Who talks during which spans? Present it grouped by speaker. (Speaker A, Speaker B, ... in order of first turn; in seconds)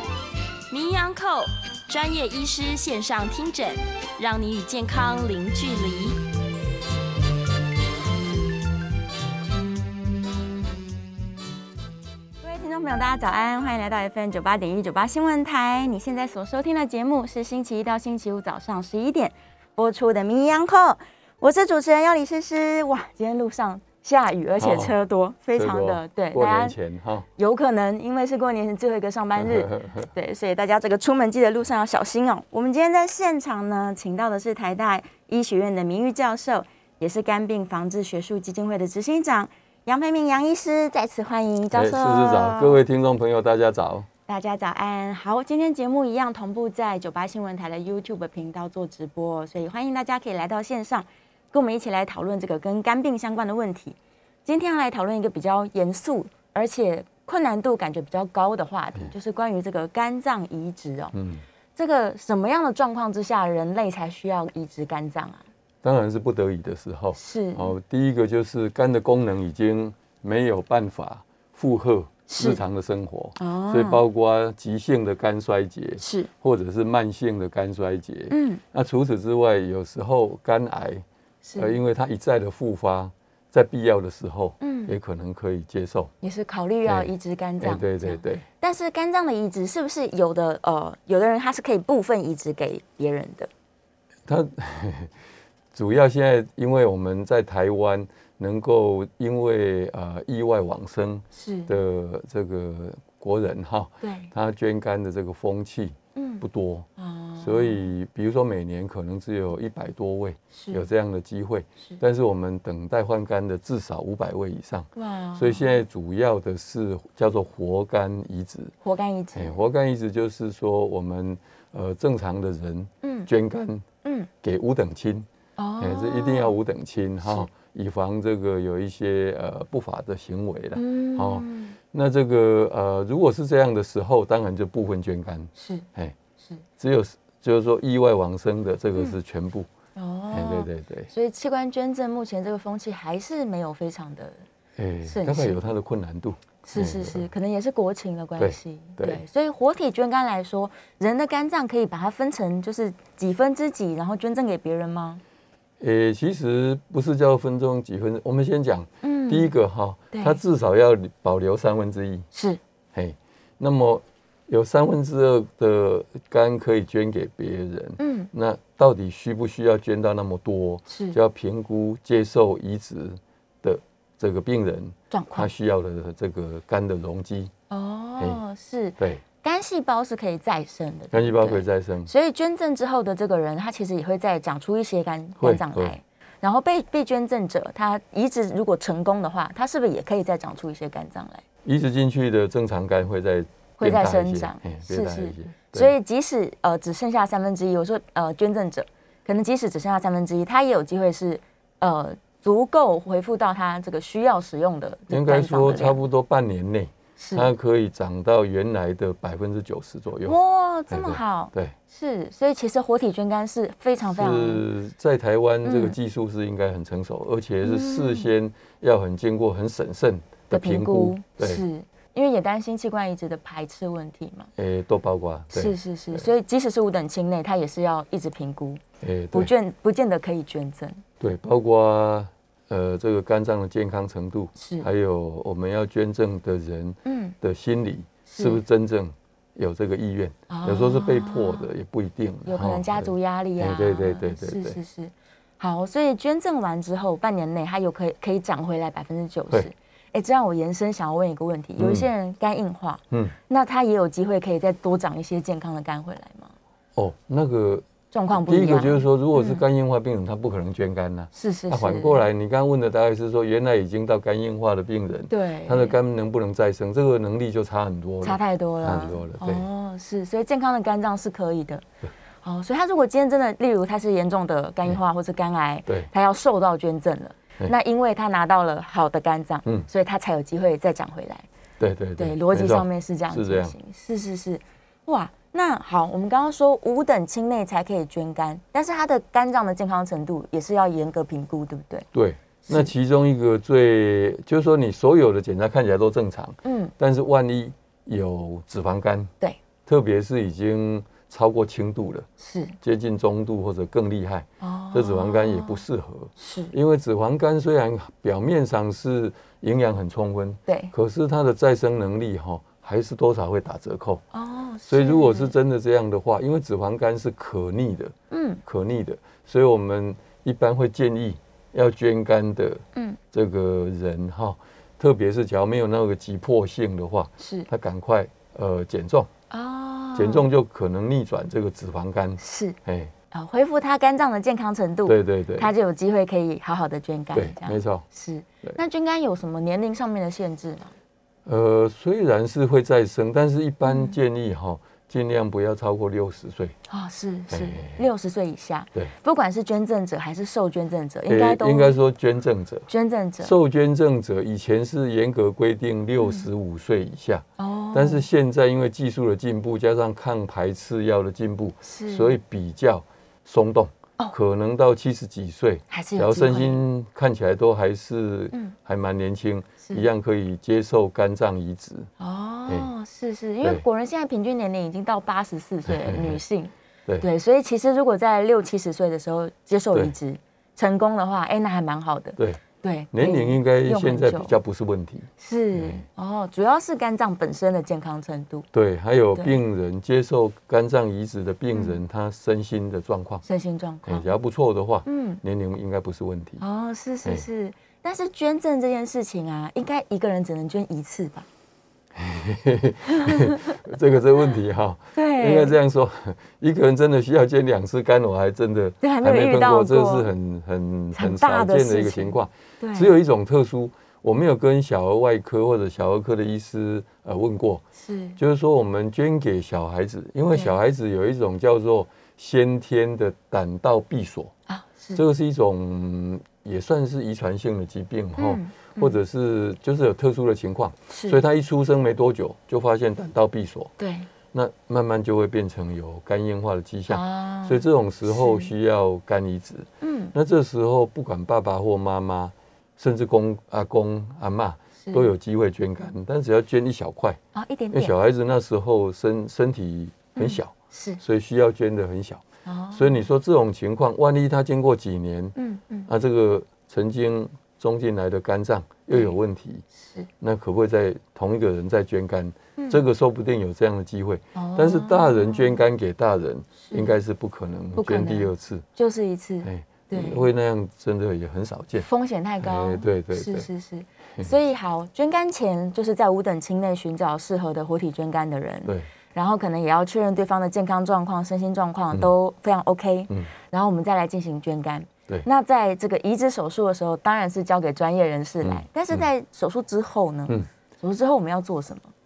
Speaker A: 0.7-6.2
Speaker B: 12.4-26.8, 27.4-42.8, 44.3-61.1, 61.8-65.5, 67.2-67.8, 72.3-72.6, 73.4-74.0, 76.0-76.3, 78.3-78.6, 81.4-81.8, 84.6-85.0, 86.2-93.5, 101.3-101.7, 104.0-104.3, 106.2-106.4, 107.0-107.9, 110.5-110.8, 115.0-115.8, 118.8-119.6, 123.0-123.3, 124.0-124.3, 125.6-126.6, 127.2-127.5, 130.8-131.8, 135.6-135.9, 139.9-144.4, 145.0-145.6, 146.7-155.2, 159.0-159.5, 160.1-160.4, 162.3-162.6, 168.0-168.3, 170.9-171.2, 175.1-175.5, 177.7-191.4, 193.8-206.0, 207.2-207.5, 210.2-214.7, 215.7-216.0, 217.6-218.3, 220.5-224.5, 225.5-231.0, 234.6-234.9, 237.1-237.4, 238.3-238.6, 240.5-241.7, 242.5-256.5, 258.1-259.6, 261.3-262.3, 265.3-266.0, 268.2-271.8, 272.4-281.5, 282.2-292.1, 292.6-292.9, 296.6-296.9, 302.4-302.8, 304.6-305.8, 306.4-306.7, 310.7-310.9, 314.3-315.5, 318.3-318.6, 327.4-327.7, 329.5-330.5, 332.4-332.8, 333.3-340.9, 343.8-344.2, 346.9-352.0, 352.9-353.5, 356.2-356.4, 357.6-358.2, 361.9-362.4, 365.9-366.8, 369.8-370.1, 372.2-384.6, 385.4-388.7, 391.7-392.0, 393.4-394.3, 395.1-395.4, 396.6-401.5, 403.1-403.8, 405.1-405.8, 409.0-410.3, 411.1-413.2, 418.0-418.4, 424.7-425.2, 428.4-429.2, 431.1-431.4, 434.0-434.3, 437.1-438.7, 440.0-440.3, 445.0-445.3, 447.6-448.1, 450.4-451.2, 452.6-453.2, 455.6-456.1, 460.0-460.3, 464.6-465.8, 466.8-467.2, 468.0-470.5, 472.0-492.1
Speaker C: 24.6-24.9, 25.5-27.3, 29.4-30.1, 41.7-44.1, 61.1-61.4, 65.8-81.0, 81.6-86.1, 86.8-88.5, 94.3-95.1, 95.7-106.9, 107.4-118.7, 119.3-123.9, 124.4-125.3, 125.8-136.2, 136.8-139.7, 140.3-141.1, 144.8-147.3, 148.4-149.2, 155.8-162.3, 162.9-177.5, 179.0-179.2, 181.1-182.1, 185.4-186.0, 191.6-195.9, 205.1-210.4, 210.9-211.8, 214.1-221.6, 224.6-226.3, 229.0-229.5, 231.2-244.8, 251.8-252.1, 257.0-269.7, 281.8-283.8, 292.1-299.3, 299.9-302.3, 302.8-314.2, 314.9-318.1, 318.7-329.3, 330.1-333.1, 335.1-335.7, 337.3-338.1, 341.5-346.8, 347.5-348.0, 351.3-352.9, 353.4-372.1, 375.9-376.4, 382.4-382.6, 383.1-386.1, 388.7-393.4, 394.1-396.6, 402.1-417.9, 418.4-424.5, 425.1-433.9, 434.5-447.4, 447.9-455.6, 456.1-459.9, 460.4-468.9, 469.6-472.1, 472.6-473.7, 488.6-489.3